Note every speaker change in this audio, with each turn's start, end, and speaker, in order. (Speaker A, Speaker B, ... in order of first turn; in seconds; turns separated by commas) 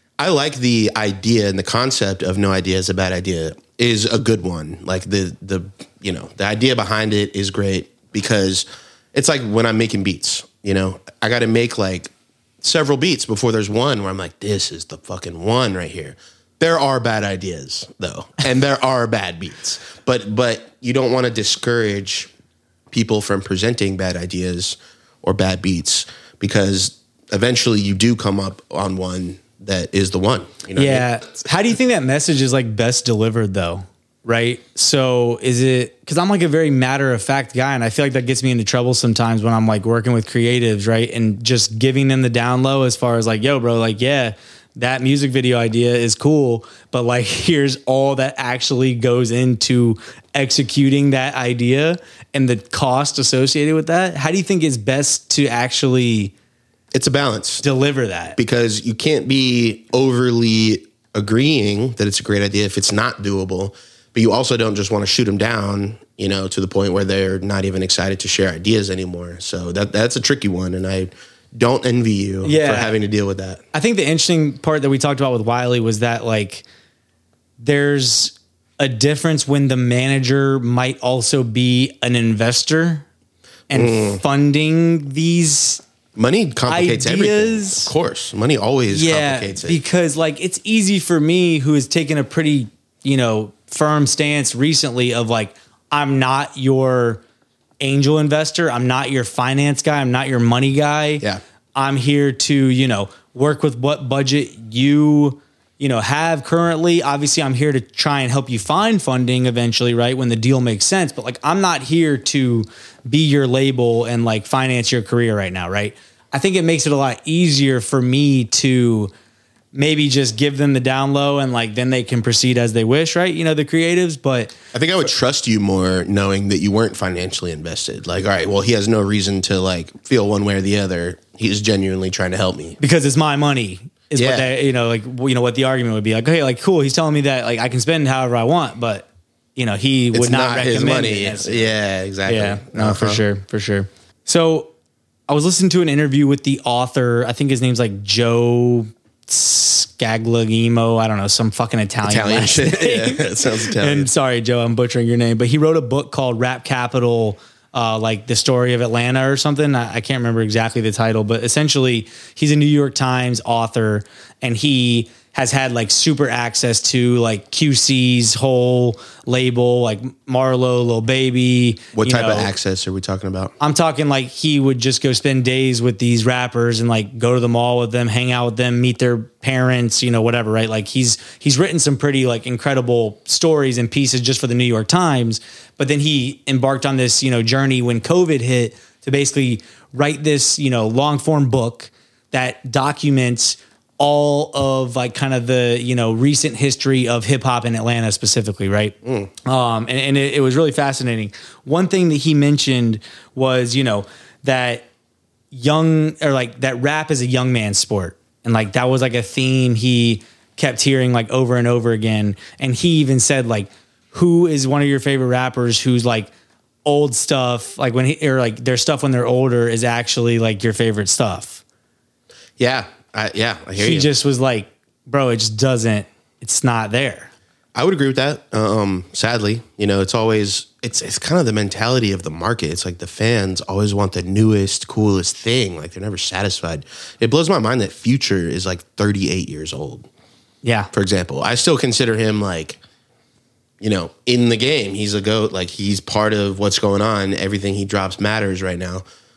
Speaker A: 0.2-22.3, Speaker A: 22.9-31.1, Speaker B: 30.8-56.3, Speaker A: 56.9-57.6, Speaker B: 57.6-58.4, Speaker A: 58.4-73.6, Speaker B: 72.4-72.9, Speaker B: 73.7-76.7, Speaker B: 77.6-83.0, Speaker B: 83.7-85.8, Speaker A: 83.7-84.2, Speaker A: 86.2-89.8, Speaker B: 86.7-88.0, Speaker B: 88.9-97.2, Speaker B: 97.8-119.1, Speaker B: 119.7-124.5, Speaker A: 124.7-132.8, Speaker B: 132.8-141.8, Speaker A: 134.2-134.5, Speaker A: 140.1-143.2, Speaker B: 142.3-144.7, Speaker B: 145.3-172.5, Speaker A: 152.0-154.1, Speaker A: 171.9-173.5, Speaker B: 173.6-204.9, Speaker A: 199.1-199.3, Speaker B: 205.5-216.3, Speaker B: 216.8-221.6, Speaker A: 222.6-224.1, Speaker B: 223.8-227.3, Speaker A: 227.8-240.1, Speaker B: 240.6-240.9, Speaker A: 240.9-242.8, Speaker A: 243.8-249.0